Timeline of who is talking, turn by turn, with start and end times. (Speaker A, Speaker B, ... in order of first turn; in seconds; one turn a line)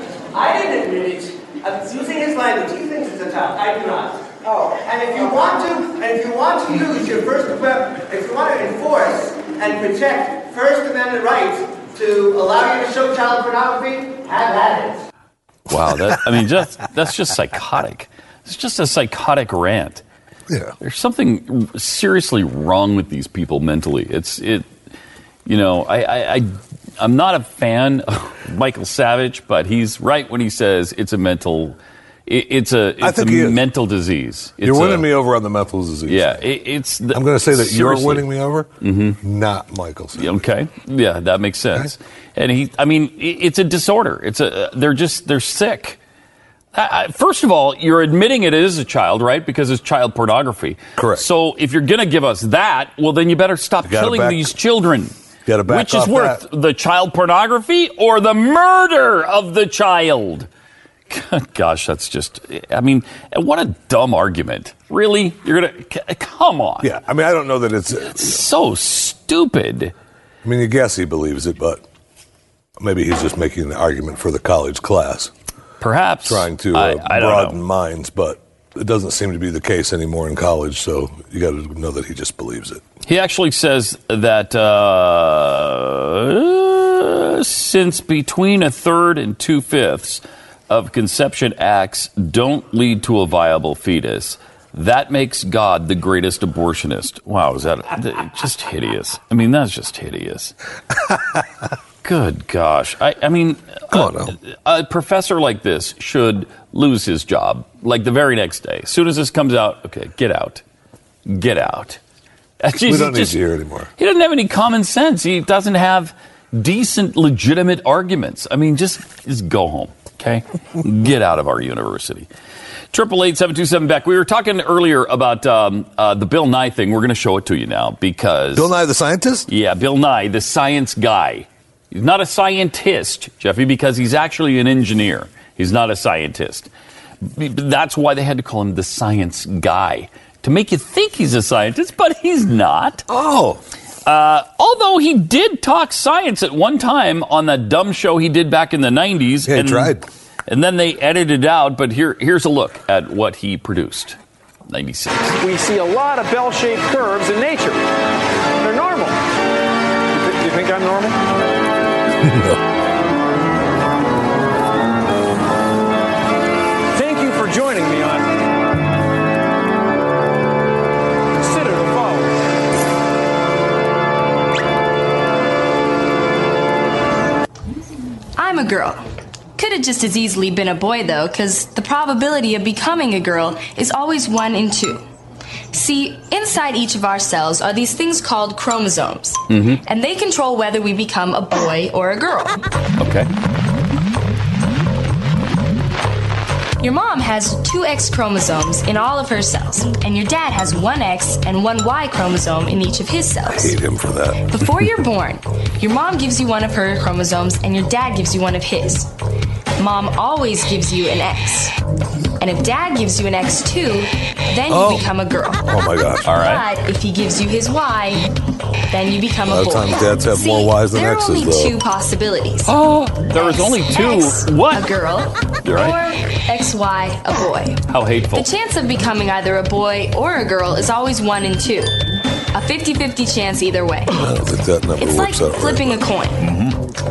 Speaker A: 0.3-15.0
Speaker B: 15.7-20.0
Speaker C: 20.5-20.7
Speaker B: 20.8-24.7
Speaker B: 25.4-35.1
Speaker C: 33.0-33.6
Speaker C: 34.6-36.4
Speaker B: 36.1-38.3
Speaker C: 37.1-38.7
Speaker B: 38.8-39.2
Speaker C: 39.2-40.3
Speaker B: 40.1-46.0
Speaker B: 46.7-55.1
Speaker C: 51.0-51.2
Speaker C: 53.8-54.5
Speaker C: 55.5-56.4
Speaker B: 55.6-60.5
Speaker B: 61.1-66.9
Speaker C: 66.8-68.4
Speaker B: 68.1-69.9
Speaker C: 70.4-71.8
Speaker C: 72.8-75.3
Speaker B: 75.8-77.6
Speaker C: 76.2-82.8
Speaker B: 83.1-100.5
Speaker B: 102.0-110.6
Speaker C: 103.9-104.3
Speaker B: 111.2-112.0
Speaker B: 112.6-113.4
Speaker C: 112.8-113.9
Speaker B: 114.0-122.3
Speaker B: 122.9-128.7
Speaker C: 128.5-129.5
Speaker B: 129.5-136.7
Speaker B: 137.2-143.0
Speaker C: 143.1-143.6
Speaker B: 144.1-154.2
Speaker C: 149.4-150.0
Speaker B: 154.7-155.4
Speaker D: 155.4-157.8
Speaker D: 158.6-159.2
Speaker D: 160.1-161.2
Speaker C: 162.2-162.6
Speaker D: 166.9-168.2
Speaker D: 171.4-172.4
Speaker E: 178.4-179.0
Speaker E: 179.6-185.0
Speaker E: 185.7-192.6
Speaker B: 189.5-189.8
Speaker B: 193.0-193.3
Speaker E: 196.8-203.8
Speaker C: 203.5-204.5
Speaker E: 204.4-209.1
Speaker E: 209.8-211.7
Speaker E: 212.4-215.6
Speaker C: 214.7-215.1
Speaker C: 215.6-216.4
Speaker B: 216.2-216.6
Speaker E: 216.3-218.3
Speaker E: 218.9-222.7
Speaker C: 219.5-221.8
Speaker B: 222.7-224.9
Speaker E: 223.3-227.8
Speaker B: 225.6-226.0
Speaker B: 227.9-228.5
Speaker E: 228.3-231.9
Speaker E: 232.5-234.2
Speaker C: 234.1-236.0
Speaker E: 235.0-236.4